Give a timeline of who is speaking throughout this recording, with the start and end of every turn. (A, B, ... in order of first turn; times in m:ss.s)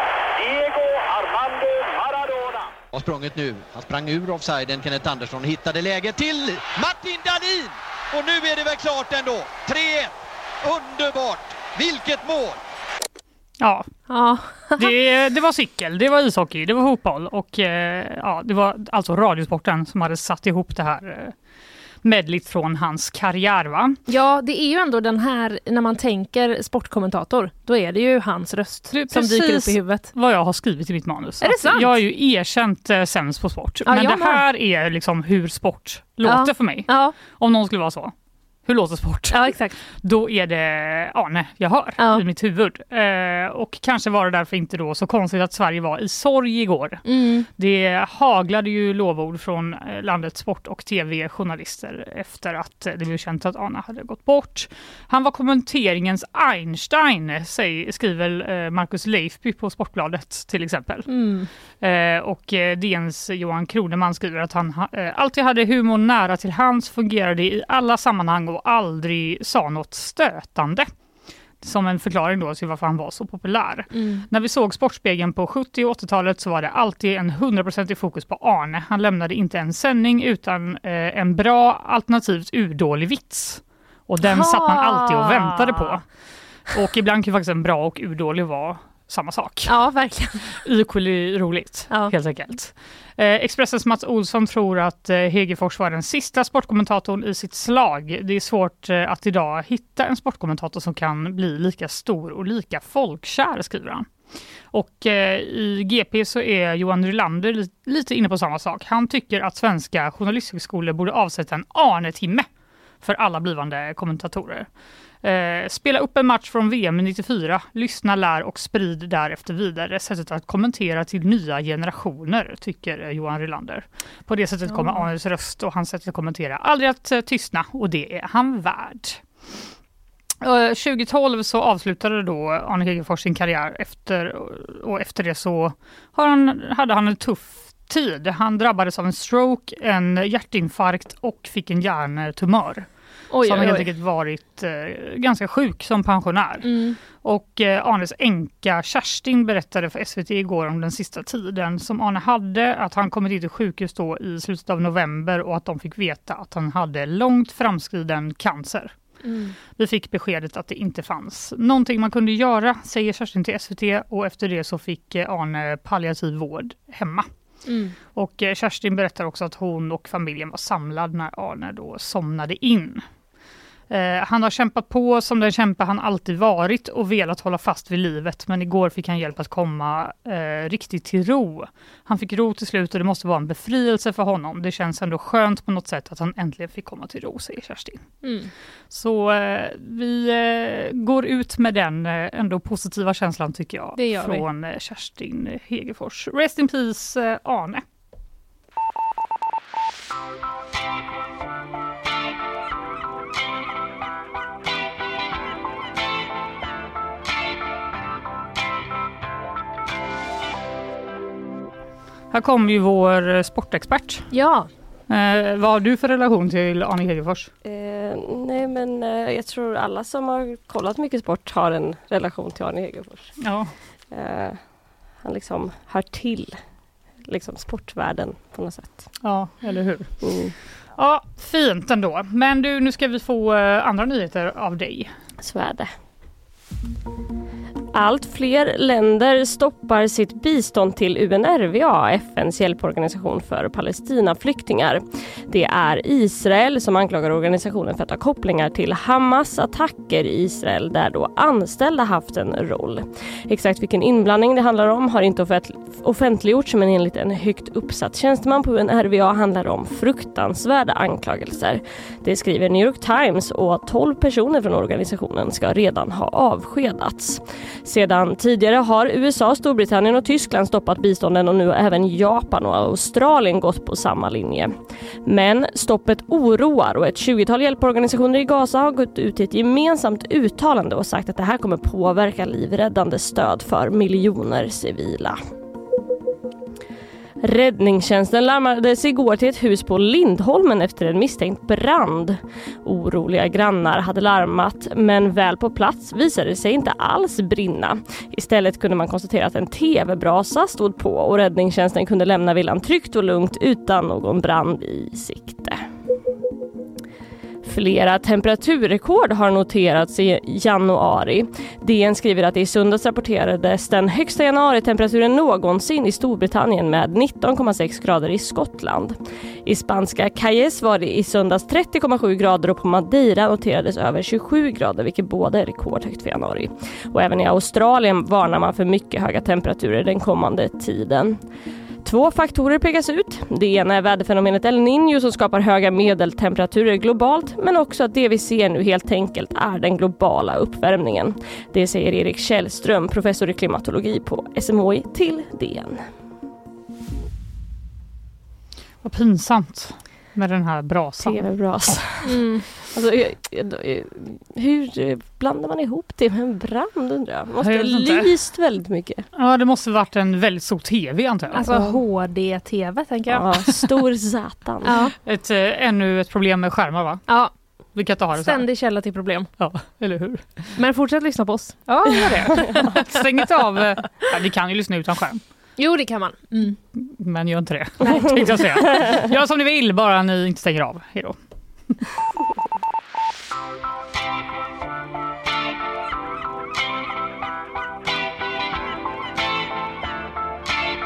0:00.4-0:02.7 A
0:02.9-0:12.6 B
0:13.6-0:13.9 C
0:14.1-0:14.9 D
0:14.8-0:21.3 C
0:22.0-0:24.0 C
0:24.1-0:30.1 D
0:28.9-0:38.1 C
0:31.4-0:31.9 D
0:33.9-0:34.4 D
0:36.2-0:37.2 D
0:38.7-0:47.0 C
0:39.3-0:39.8 D
0:42.0-0:42.2 D
0:47.1-0:47.5 D
0:47.6-1:01.1 C
1:01.1-1:01.5 D
1:01.8-1:10.9 C
1:11.6-1:26.0 C
1:13.9-1:14.3 D
1:24.2-1:26.0 D
1:26.7-1:29.8 C
1:29.7-1:30.6 D
1:30.6-1:44.1 C
1:44.7-1:52.5 C
1:53.0-1:54.7 C
1:55.2-2:09.2 C
2:04.7-2:05.0 D
2:10.4-2:22.9 C
2:23.3-2:23.9 D
2:23.4-2:26.7 C
2:26.6-2:27.0 D
2:27.2-2:38.9 C
2:39.2-2:39.6 D
2:39.8-2:47.3 C
2:47.7-2:48.0 D
2:48.2-2:53.0 C
2:53.9-3:08.0 C
3:08.2-3:08.5 D
3:08.9-3:17.8 C
3:14.0-3:14.4 D
3:32.3-3:34.3 C
3:34.3-3:34.7 D
3:35.1-3:37.5 C
3:37.6-3:43.3 E
3:43.4-3:43.7 C
3:44.1-3:44.6 E
3:45.2-3:46.6 E
3:47.3-3:49.1 E
3:49.2-3:50.1 C
3:50.2-3:50.5 E
3:51.0-3:55.1 C
3:55.4-3:55.9 E
3:57.9-4:34.7 E
4:35.2-4:45.4 E
4:47.4-5:05.8 E
5:07.6-5:31.4 E
5:32.0-5:46.0 E
5:49.0-5:51.4 C
5:51.2-5:52.3 E
5:52.2-5:52.6 D
5:52.9-5:59.2 E
5:57.6-5:58.3 C
5:59.4-6:02.0 C
6:01.5-6:03.5 D
6:03.3-6:04.9 E
6:04.8-6:05.1 D
6:05.1-6:07.2 C
6:08.0-6:08.7 C
6:08.4-6:09.5 D
6:09.6-6:10.7 C
6:10.8-6:12.3 D
6:11.9-6:15.4 C
6:15.8-6:16.8 D
6:17.0-6:21.4 C
6:18.1-6:18.4 D